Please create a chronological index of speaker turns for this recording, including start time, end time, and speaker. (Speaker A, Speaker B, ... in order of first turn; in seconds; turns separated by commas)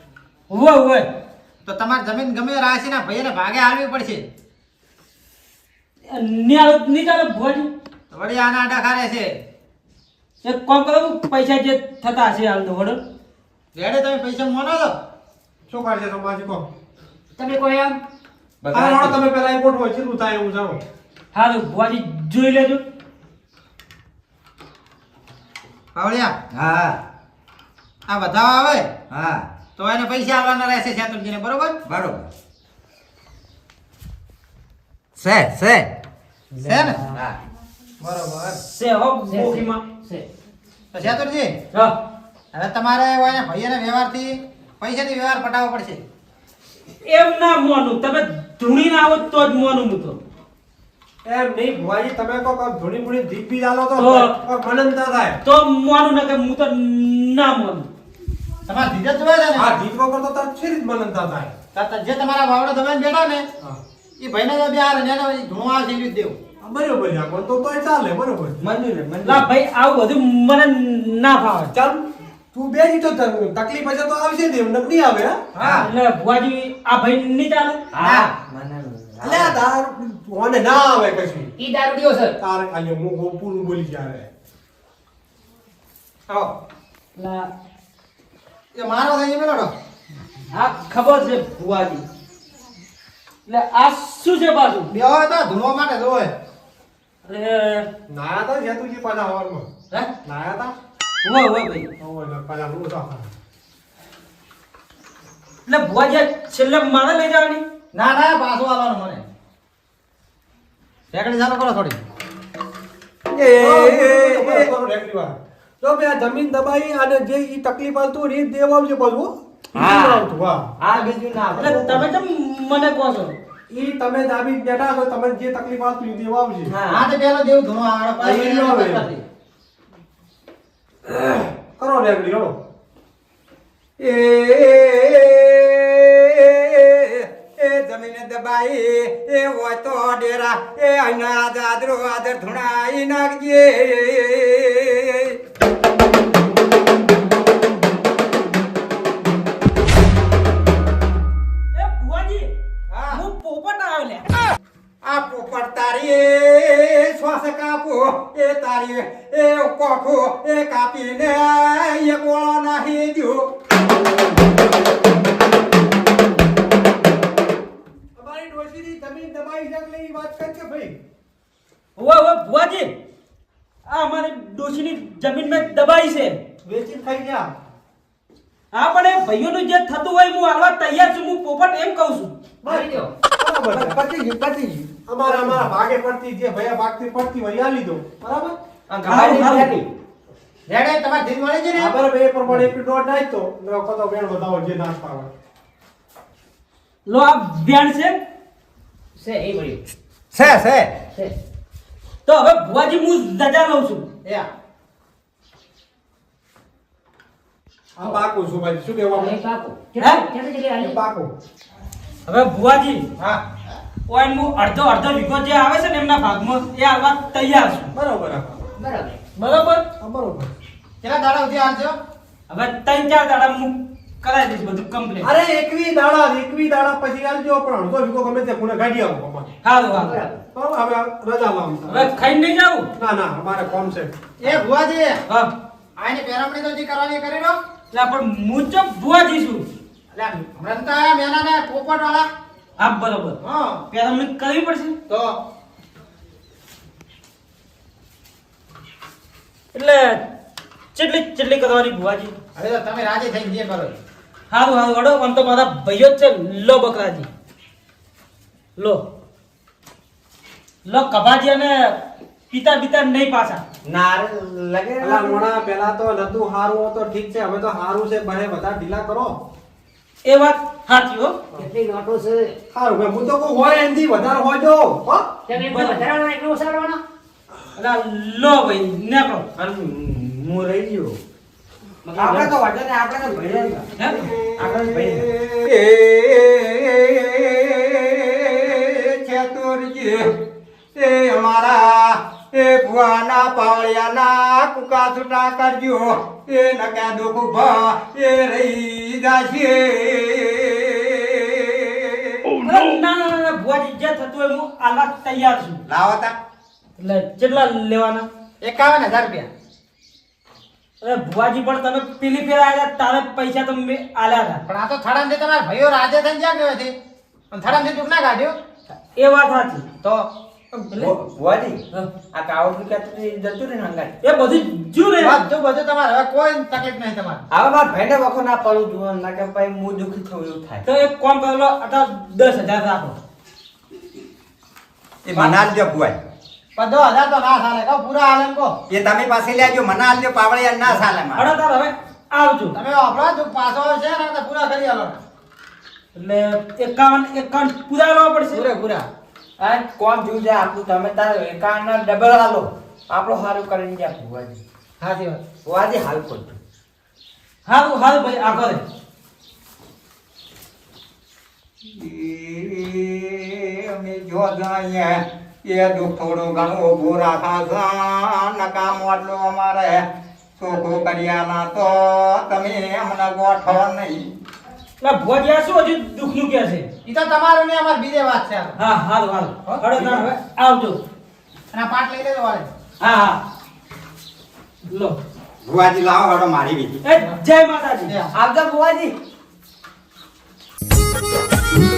Speaker A: 0.5-1.1, Speaker B: 1.6-4.2, Speaker A: 6.1-7.7, Speaker B: 8.1-9.3, Speaker A: 10.4-13.0, Speaker B: 13.7-14.9, Speaker C: 15.7-16.7, Speaker D: 17.4-18.0, Speaker E: 18.6-19.2, Speaker C: 18.7-20.8, Speaker A: 21.3-22.8, Speaker B: 25.9-26.4, Speaker F: 26.5-27.0, Speaker B: 28.1-28.9, Speaker F: 29.1-29.4, Speaker B: 29.8-31.8, Speaker F: 31.9-32.2, Speaker F: 35.2-35.9, Speaker B: 36.6-37.0, Speaker B: 38.0-38.6, Speaker A: 38.6-39.8, Speaker D: 39.3-40.3, Speaker B: 40.9-41.5, Speaker B: 42.5-46.0, Speaker A: 47.0-50.2, Speaker C: 51.2-55.4, Speaker A: 54.0-54.3, Speaker A: 55.4-57.9, Speaker B: 58.7-59.7, Speaker C: 59.5-61.5, Speaker B: 61.7-63.5, Speaker B: 64.2-66.4, Speaker C: 66.6-68.6, Speaker E: 68.6-69.5, Speaker A: 69.2-71.7, Speaker C: 71.7-75.5, Speaker B: 75.5-75.9, Speaker A: 75.6-77.9, Speaker E: 77.9-79.6, Speaker B: 78.0-78.3, Speaker C: 79.2-81.5, Speaker D: 81.6-82.3, Speaker C: 82.4-84.3, Speaker A: 87.2-87.5, Speaker B: 88.7-89.7, Speaker A: 90.5-92.0, Speaker A: 93.5-94.9, Speaker B: 94.9-96.3, Speaker A: 97.2-97.9, Speaker C: 98.1-99.7, Speaker C: 100.2-100.7, Speaker A: 101.2-101.9, Speaker C: 102.0-103.3, Speaker A: 105.7-107.6, Speaker B: 107.9-109.2, Speaker B: 111.1-112.0, Speaker E: 113.3-114.7, Speaker C: 113.6-120.7, Speaker E: 119.7-120.2, Speaker E: 120.8-122.0, Speaker A: 121.5-123.3, Speaker C: 123.7-126.7, Speaker E: 126.7-127.1, Speaker B: 126.9-129.2, Speaker C: 128.2-129.0, Speaker C: 131.0-132.5, Speaker F: 134.0-145.3, Speaker A: 151.7-152.5, Speaker B: 152.9-153.2, Speaker A: 153.1-154.2, Speaker F: 155.0-163.5, Speaker C: 168.2-171.0, Speaker A: 172.0-172.9, Speaker A: 173.9-176.4, Speaker C: 176.6-177.5, Speaker A: 178.7-182.3, Speaker D: 182.6-183.1, Speaker C: 182.6-184.0, Speaker E: 183.7-185.7, Speaker C: 185.1-188.6, Speaker E: 188.9-189.9, Speaker A: 189.1-189.7, Speaker B: 190.7-192.0, Speaker C: 191.8-195.3, Speaker A: 197.1-198.2, Speaker D: 199.2-199.8, Speaker F: 200.3-200.9, Speaker A: 202.2-204.1, Speaker C: 208.0-209.4, Speaker D: 209.1-211.0, Speaker A: 210.0-210.2, Speaker C: 210.8-211.3, Speaker A: 212.3-213.1, Speaker A: 214.1-217.9, Speaker C: 217.9-218.6, Speaker D: 218.8-219.2, Speaker A: 219.4-219.8, Speaker C: 220.0-220.5, Speaker B: 221.0-222.0, Speaker A: 222.5-225.3, Speaker C: 225.2-229.5, Speaker A: 229.6-230.2, Speaker D: 229.9-230.4, Speaker C: 230.5-232.2, Speaker A: 231.9-232.9, Speaker C: 233.0-234.6, Speaker B: 234.4-235.2, Speaker B: 236.0-237.6, Speaker A: 237.9-239.6, Speaker B: 240.1-242.3, Speaker A: 242.8-243.4, Speaker B: 243.4-243.8, Speaker A: 243.9-244.9, Speaker B: 245.1-245.3, Speaker A: 249.7-250.2, Speaker A: 250.9-252.3, Speaker B: 252.6-254.0, Speaker A: 254.5-257.3, Speaker A: 258.8-259.0, Speaker A: 260.9-262.0, Speaker A: 262.5-263.6, Speaker E: 263.8-265.5, Speaker C: 265.0-269.4, Speaker A: 270.2-271.4, Speaker D: 271.5-272.5, Speaker C: 272.7-275.3, Speaker D: 275.5-277.0, Speaker A: 275.5-276.1, Speaker A: 277.8-279.4, Speaker E: 279.6-281.2, Speaker E: 282.1-283.9, Speaker A: 284.0-284.2, Speaker F: 284.2-290.3, Speaker E: 284.6-285.2, Speaker F: 290.9-302.5, Speaker A: 302.6-305.8, Speaker F: 305.9-306.3, Speaker A: 307.0-308.3, Speaker B: 308.6-309.5, Speaker A: 311.0-314.6, Speaker B: 314.6-316.9, Speaker B: 317.5-318.5, Speaker A: 319.1-319.9, Speaker B: 320.0-320.3, Speaker E: 320.9-321.8, Speaker E: 322.3-324.1, Speaker A: 324.2-325.4, Speaker B: 325.2-327.4, Speaker E: 327.5-330.9, Speaker A: 330.9-333.1, Speaker F: 335.2-336.2, Speaker B: 336.8-338.7, Speaker F: 338.9-341.5, Speaker A: 341.4-342.7, Speaker B: 342.7-345.2, Speaker A: 346.1-348.6, Speaker B: 348.5-349.1, Speaker E: 349.6-354.6, Speaker B: 355.0-355.4, Speaker E: 355.6-356.6, Speaker A: 357.6-358.8, Speaker F: 361.9-370.0, Speaker F: 370.6-374.3, Speaker A: 375.0-376.9, Speaker B: 377.1-378.8, Speaker A: 378.8-381.0, Speaker B: 379.6-380.3, Speaker B: 381.7-382.7, Speaker A: 383.0-383.4, Speaker A: 384.9-385.2, Speaker F: 385.6-387.0, Speaker A: 387.0-388.1, Speaker E: 388.3-389.1